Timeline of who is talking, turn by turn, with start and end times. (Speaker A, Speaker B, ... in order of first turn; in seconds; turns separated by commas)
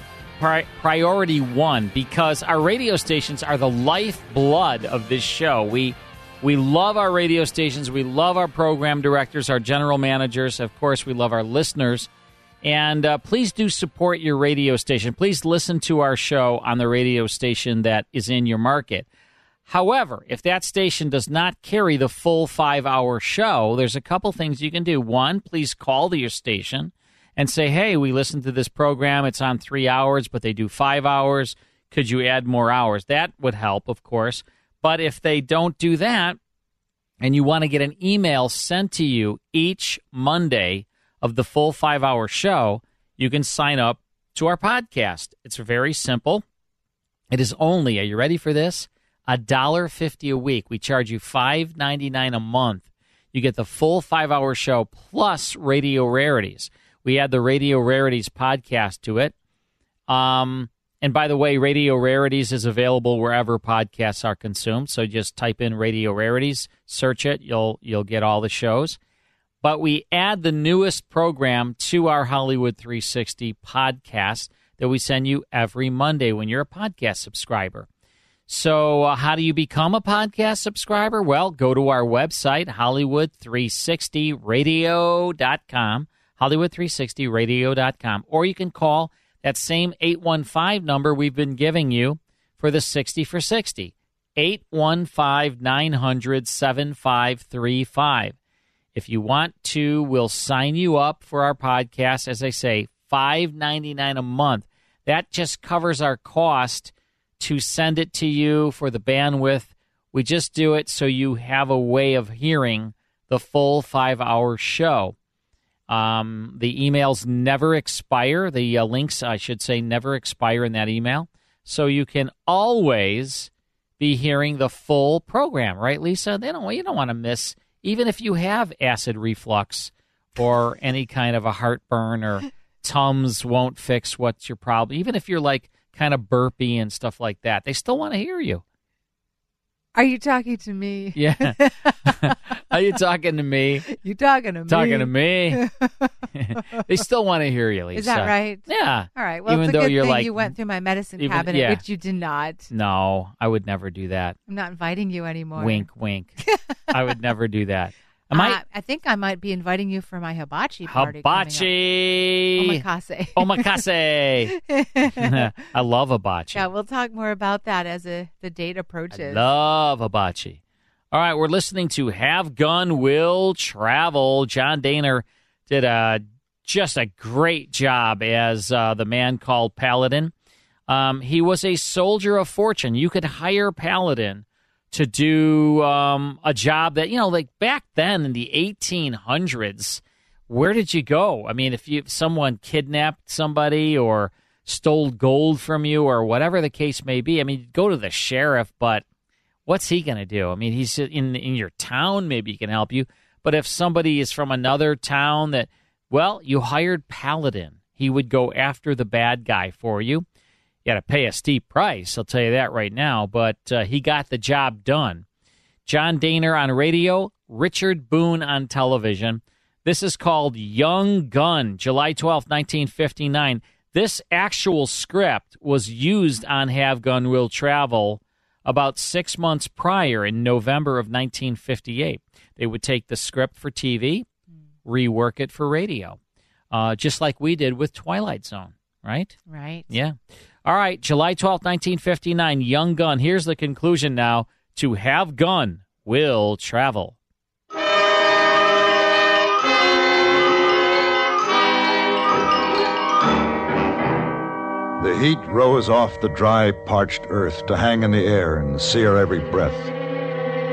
Speaker A: 0.4-12.1, Speaker A: 12.6-19.1, Speaker A: 19.7-36.4, Speaker A: 37.2-46.4, Speaker A: 47.3-59.3, Speaker A: 60.1-69.0, Speaker A: 69.6-77.9, Speaker A: 78.5-98.3, Speaker A: 98.9-115.1, Speaker A: 115.9-138.6, Speaker B: 139.9-142.3, Speaker A: 141.2-143.9, Speaker B: 143.9-146.1, Speaker A: 144.7-145.6, Speaker A: 146.3-150.5, Speaker B: 147.9-152.7, Speaker A: 151.2-151.8, Speaker A: 152.7-154.4, Speaker B: 154.5-155.8, Speaker A: 155.6-156.4, Speaker A: 156.9-158.6, Speaker B: 158.3-161.7, Speaker A: 160.9-166.7, Speaker B: 162.6-163.8, Speaker B: 164.6-165.5, Speaker B: 166.5-169.4, Speaker A: 169.1-170.6, Speaker A: 171.1-180.3, Speaker A: 180.9-199.0, Speaker A: 199.7-210.2, Speaker A: 210.8-215.2, Speaker A: 215.8-234.2, Speaker A: 234.8-236.2, Speaker A: 236.7-239.4, Speaker B: 239.5-239.8, Speaker A: 239.9-247.2, Speaker C: 255.0-259.9